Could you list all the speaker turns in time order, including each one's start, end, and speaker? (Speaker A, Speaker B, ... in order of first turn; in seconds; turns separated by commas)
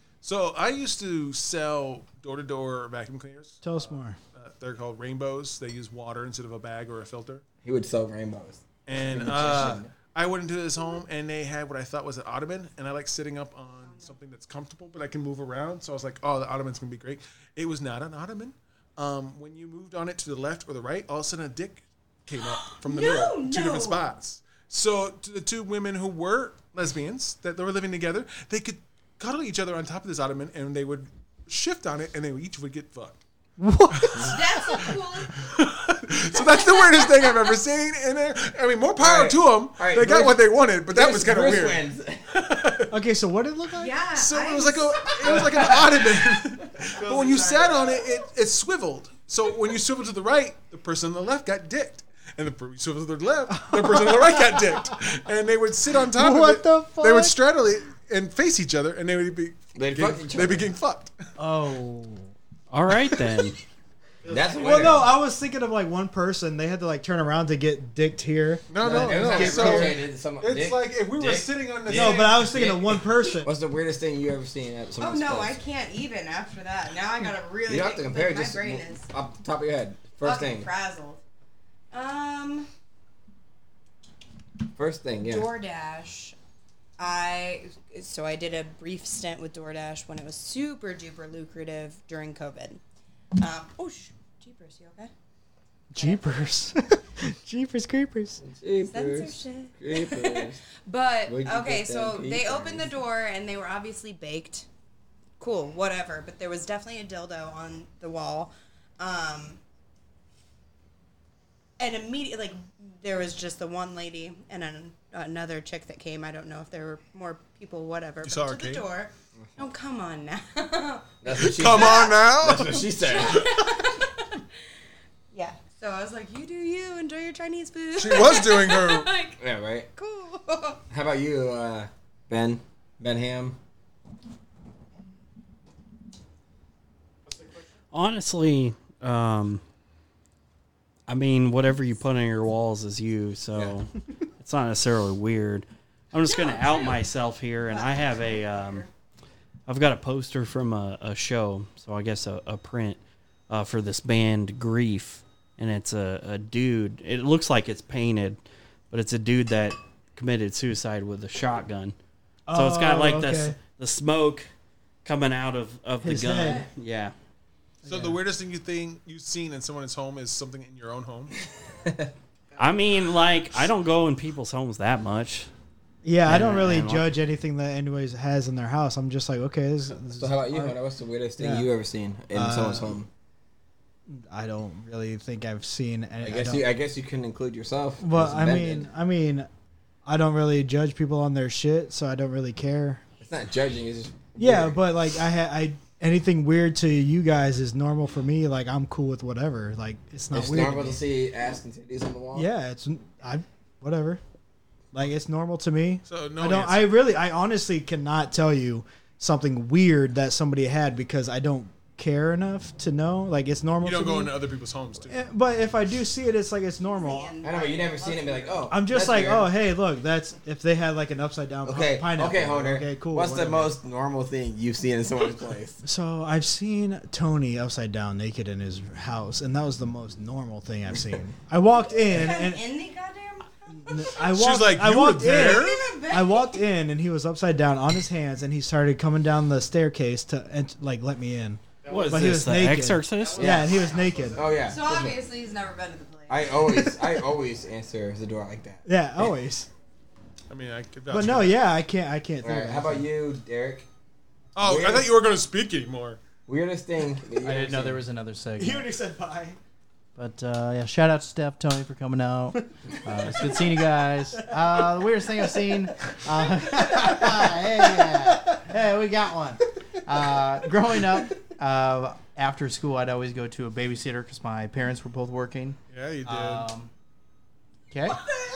Speaker A: 0.2-3.6, Speaker B: 3.6-4.2, Speaker A: 4.3-7.4, Speaker C: 7.6-9.9, Speaker A: 8.8-33.2, Speaker D: 13.8-14.2, Speaker D: 22.4-24.0, Speaker B: 33.6-34.9, Speaker D: 34.1-35.5, Speaker A: 35.3-42.9, Speaker D: 36.2-37.5, Speaker C: 39.0-40.4, Speaker C: 40.9-42.3, Speaker B: 42.9-43.9, Speaker D: 43.7-46.4, Speaker A: 44.1-61.1, Speaker E: 46.9-48.0, Speaker B: 53.6-54.9, Speaker B: 56.1-57.4, Speaker C: 59.7-60.7, Speaker B: 61.4-62.3, Speaker F: 62.7-63.6, Speaker E: 64.2-64.9, Speaker C: 64.3-65.1, Speaker B: 64.5-70.0, Speaker A: 68.7-72.8, Speaker C: 68.8-75.6, Speaker B: 71.9-73.5, Speaker D: 75.0-79.1, Speaker C: 77.7-80.7, Speaker D: 80.2-81.2, Speaker D: 81.9-82.7, Speaker C: 84.7-85.5, Speaker D: 85.2-86.3, Speaker D: 87.0-92.8, Speaker D: 93.4-95.1, Speaker B: 95.9-98.4, Speaker D: 96.0-96.5, Speaker C: 98.4-100.6, Speaker D: 98.8-104.7, Speaker C: 101.3-102.9, Speaker D: 105.4-109.6, Speaker D: 111.8-122.2, Speaker A: 118.2-118.9, Speaker C: 119.4-119.6, Speaker C: 121.2-123.5, Speaker A: 121.3-122.9, Speaker D: 122.9-124.4, Speaker D: 125.3-129.4, Speaker A: 128.0-129.1, Speaker C: 129.4-129.9, Speaker D: 129.9-130.8, Speaker C: 130.9-133.6, Speaker E: 137.2-137.8, Speaker F: 137.9-139.6, Speaker F: 141.1-148.8, Speaker D: 146.2-148.9, Speaker F: 149.7-158.4, Speaker F: 158.9-161.9, Speaker B: 162.5-163.6, Speaker F: 162.5-164.5, Speaker F: 165.0-167.1, Speaker B: 166.0-166.6, Speaker D: 166.4-166.7, Speaker B: 167.8-168.2, Speaker A: 167.8-171.3, Speaker C: 171.8-172.1, Speaker F: 172.6-175.5, Speaker B: 176.0-180.8, Speaker F: 176.2-177.2, Speaker C: 180.2-183.1, Speaker B: 181.4-181.7, Speaker B: 182.3-182.9, Speaker B: 184.1-186.7, Speaker C: 186.2-188.9, Speaker B: 188.0-189.5, Speaker B: 190.1-193.0, Speaker C: 193.2-194.8, Speaker B: 194.4-201.0, Speaker C: 200.3-202.5, Speaker B: 202.3-204.2, Speaker B: 204.9-214.3, Speaker A: 206.1-206.9, Speaker A: 213.8-215.2, Speaker B: 215.1-217.3, Speaker D: 216.9-218.7, Speaker C: 217.4-219.5, Speaker B: 218.7-223.7, Speaker C: 221.6-225.8, Speaker B: 225.8-232.6, Speaker D: 232.0-234.2, Speaker B: 233.8-244.5, Speaker A: 234.2-235.9, Speaker D: 235.3-236.7, Speaker E: 241.8-242.4, Speaker F: 241.9-243.6, Speaker E: 243.1-244.7, Speaker C: 243.4-243.7, Speaker C: 244.3-245.2, Speaker D: 244.6-246.5, Speaker C: 246.3-248.8, Speaker B: 246.6-247.2, Speaker B: 248.8-249.7, Speaker A: 250.5-251.6, Speaker B: 251.1-253.1, Speaker C: 252.4-253.8, Speaker A: 254.5-256.2, Speaker C: 254.6-255.1, Speaker C: 256.4-258.0, Speaker E: 257.4-258.9, Speaker B: 258.6-259.6, Speaker E: 260.1-276.9, Speaker B: 263.1-265.5, Speaker B: 266.3-268.6, Speaker A: 275.9-276.7, Speaker E: 277.9-278.2